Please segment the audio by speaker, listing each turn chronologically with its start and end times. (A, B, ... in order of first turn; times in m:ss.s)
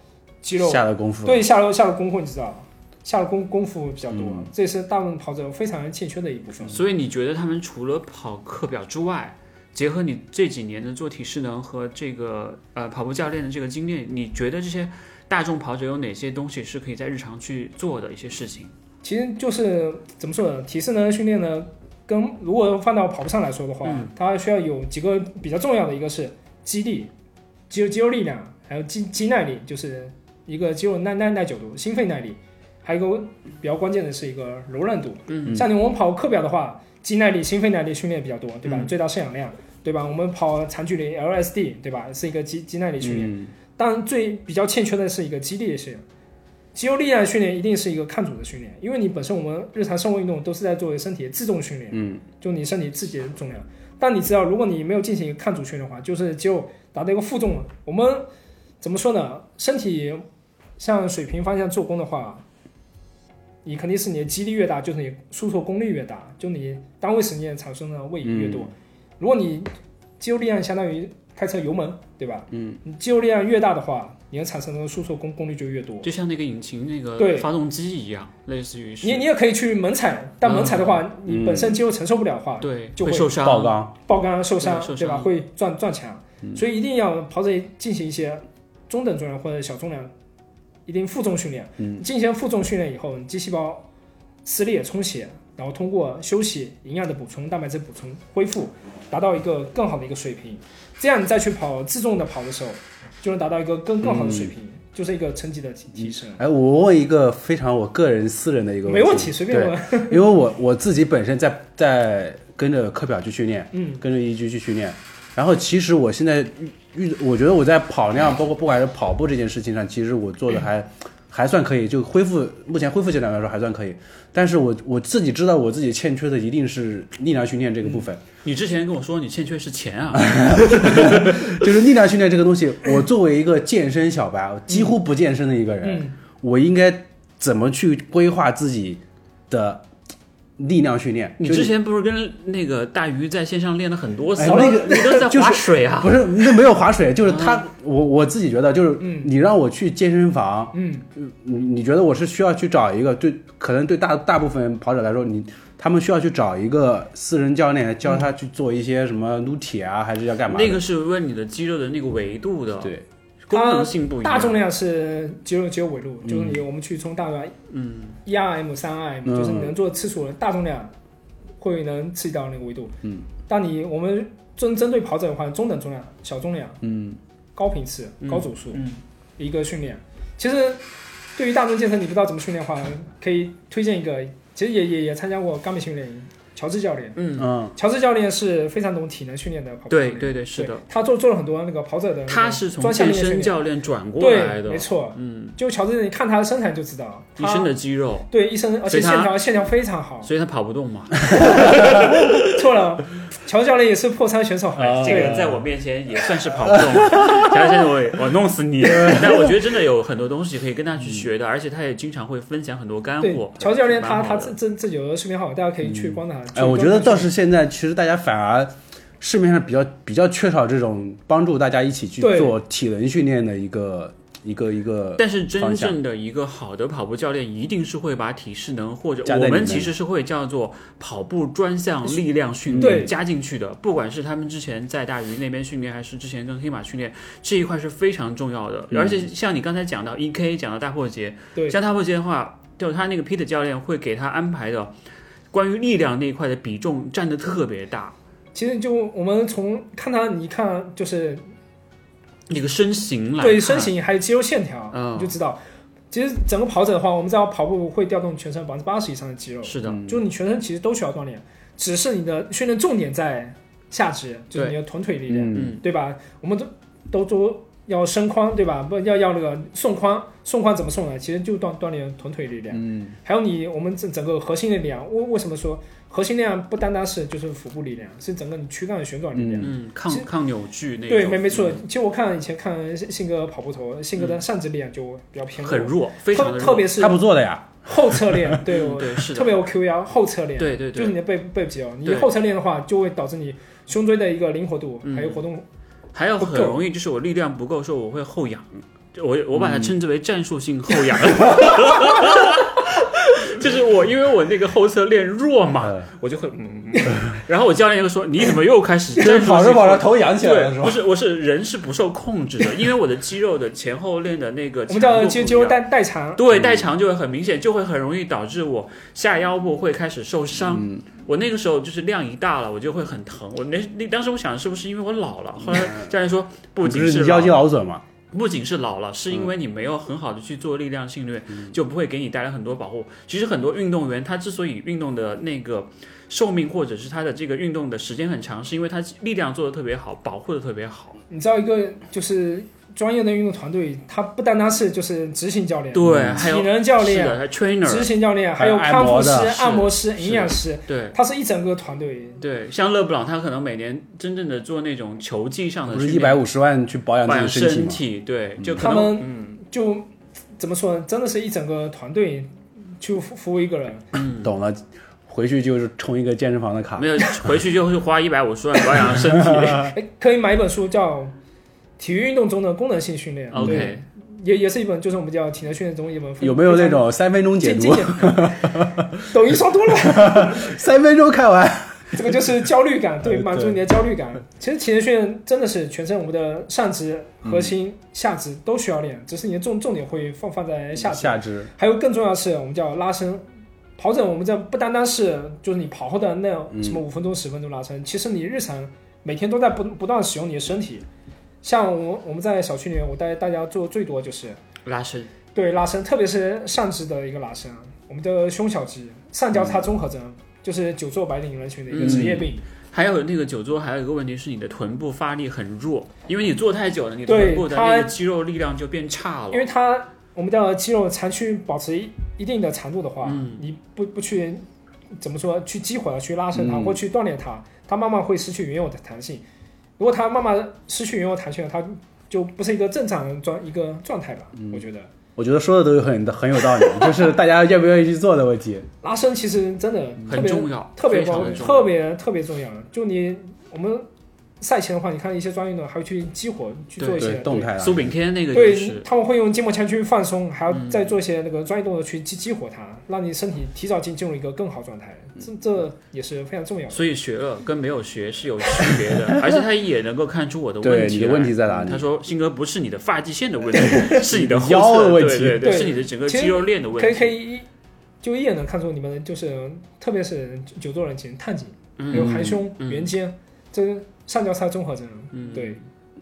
0:00.4-0:06.8 A
0:00.6-0:01.4 B
0:04.1-0:04.5 B
0:06.7-0:18.7 C
0:19.0-0:27.1 A
0:23.8-0:24.1 C
0:27.7-0:46.0 A
0:35.3-0:35.6 C
0:38.7-0:38.9 C
0:43.0-0:43.5 B
0:46.8-0:58.3 A
0:51.9-0:52.2 B
0:58.8-1:00.2 A
1:00.8-1:02.4 A
1:03.6-1:16.1 A
1:08.2-1:08.7 B
1:12.5-1:12.8 B
1:16.0-1:19.3 C
1:17.2-1:17.5 A
1:19.0-1:23.4 A
1:20.4-1:21.0 C
1:21.3-1:21.8 B
1:22.6-1:23.8 C
1:23.4-1:23.9 B
1:24.1-1:30.1 A
1:24.6-1:25.3 C
1:30.9-1:33.9 A
1:34.4-1:46.4 A
1:44.0-1:44.5 B
1:46.0-2:08.2 B
1:48.9-1:50.2 A
1:53.7-1:54.0 A
2:08.4-2:11.7 C
2:10.1-2:19.9 B
2:14.7-2:15.0 A
2:15.8-2:16.2 A
2:20.6-2:21.7 B
2:21.4-2:26.7 C
2:24.4-2:40.8 B
2:24.4-2:25.0 A
2:27.2-2:27.6 C
2:29.0-2:29.3 A
2:30.7-2:31.1 A
2:40.5-2:44.6 C
2:43.5-2:47.6 A
2:46.2-2:46.6 B
2:47.7-2:48.2 C
2:48.2-2:50.9 A
2:49.3-2:49.7 B
2:51.6-2:53.0 A
2:53.5-2:56.8 A
2:56.8-2:57.2 B
2:57.6-2:58.8 A
2:58.2-2:59.0 C
2:59.4-3:00.8 A
3:01.4-3:07.2 A
3:07.2-3:07.6 C
3:07.4-3:07.7 B
3:07.8-3:13.6 A
3:09.9-3:10.8 C
3:12.3-3:15.6 C
3:14.2-3:17.7 A
3:17.4-3:18.3 C
3:18.3-3:20.3 A
3:18.9-3:19.4 C
3:20.2-3:22.4 C
3:21.3-3:25.5 A
3:24.8-3:25.6 B
3:24.8-3:34.6 C
3:26.7-3:27.6 B
3:28.8-3:29.6 B
3:33.2-3:37.3 A
3:35.8-3:46.0 B
3:42.2-3:42.6 A
3:45.2-4:04.9 C
3:49.2-3:49.9 B
3:52.7-3:53.1 B
3:52.8-3:53.1 A
3:58.9-3:59.3 B
4:05.5-4:08.2 C
4:08.6-4:11.4 A
4:12.5-4:13.9 C
4:13.4-4:15.6 A
4:14.9-4:15.4 C
4:16.1-4:40.3 A
4:19.6-4:20.0 C
4:19.8-4:20.2 B
4:25.3-4:25.8 B
4:25.5-4:25.8 C
4:32.7-4:33.2 B
4:39.4-4:39.7 B
4:39.6-4:41.8 C
4:41.1-4:47.2 A
4:45.6-4:46.9 C
4:47.0-4:48.6 B
4:47.8-4:55.6 A
4:48.7-4:49.6 C
4:50.6-4:51.2 C
4:52.0-4:52.3 C
4:55.0-4:55.4 C
4:56.1-5:15.8 C
4:56.4-4:56.8 A
4:59.5-4:59.9 B
5:09.2-5:11.0 B
5:14.9-5:16.4 A
5:16.4-5:27.6 C
5:16.5-5:16.9 B
5:20.6-5:21.1 B
5:25.6-5:26.1 B
5:26.8-5:28.0 B
5:28.3-5:41.2 C
5:41.3-5:52.4 A
5:45.9-5:48.1 C
5:46.0-5:46.5 B
5:48.6-5:49.8 B
5:49.6-5:51.2 C
5:52.4-5:56.4 C
5:55.9-5:58.0 B
5:57.2-5:59.6 C
5:58.6-5:58.9 B
5:58.8-6:04.1 A
6:04.1-6:04.5 C
6:04.4-6:07.6 B
6:07.0-6:10.0 C
6:09.0-6:09.8 B
6:09.9-6:11.3 A
6:12.0-6:20.7 A
6:13.5-6:14.0 C
6:13.6-6:13.9 B
6:16.4-6:19.1 B
6:20.0-6:22.3 B
6:22.1-6:33.4 A
6:23.3-6:23.8 B
6:27.4-6:27.7 B
6:31.0-6:31.7 B
6:34.0-6:41.0 A
6:36.7-6:37.0 B
6:41.6-6:44.6 A
6:44.8-6:45.3 C
6:45.5-6:52.6 A
6:49.6-6:49.9 B
6:51.9-6:59.7 C
6:52.0-6:52.5 B
6:57.3-6:58.1 A
6:59.5-7:04.6 A
7:03.2-7:03.6 C
7:05.2-7:09.4 A
7:06.5-7:07.0 B
7:10.0-7:15.1 A
7:15.4-7:18.9 B
7:19.0-7:24.1 A
7:20.3-7:21.9 C
7:24.6-7:27.8 A
7:27.0-7:29.1 C
7:27.2-7:28.1 B
7:28.5-7:37.0 A
7:30.7-7:31.1 C
7:36.9-7:47.4 C
7:40.8-7:42.1 B
7:43.9-7:45.9 B
7:45.6-7:47.7 A
7:48.2-7:55.8 A
7:52.0-7:53.1 C
7:52.1-7:52.6 B
7:55.3-7:55.8 C